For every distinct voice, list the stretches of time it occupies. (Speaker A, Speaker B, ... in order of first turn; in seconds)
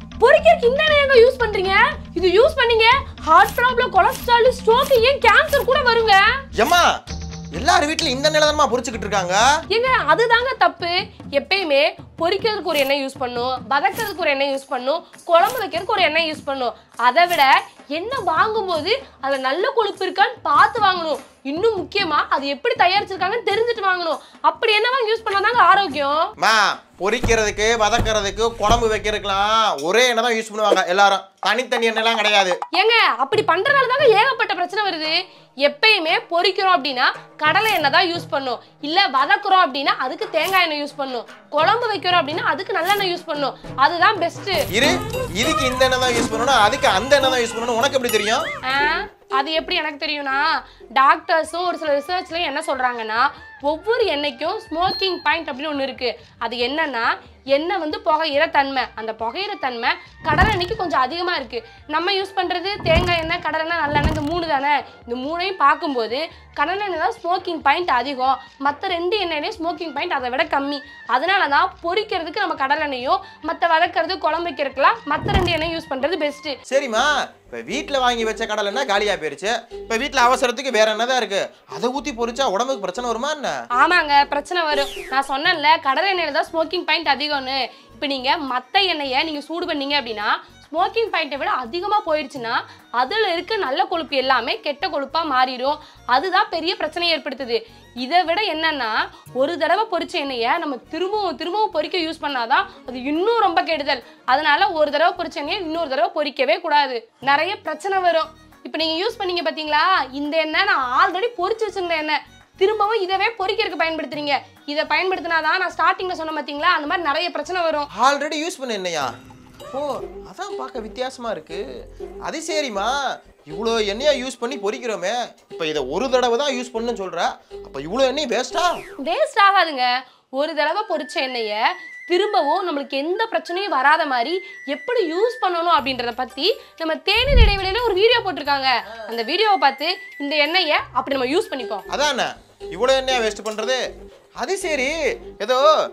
Speaker A: 0.2-6.2, 9.7-26.3, 32.8-44.6, 48.7-50.5, 51.0-76.6, 83.8-117.9, 129.0-141.8
Speaker B: 6.6-6.9, 7.6-9.4, 26.4-32.6, 44.7-48.5, 76.7-83.5, 118.0-119.1, 119.7-121.6, 122.3-123.0, 123.5-128.7, 141.9-143.8, 144.4-145.7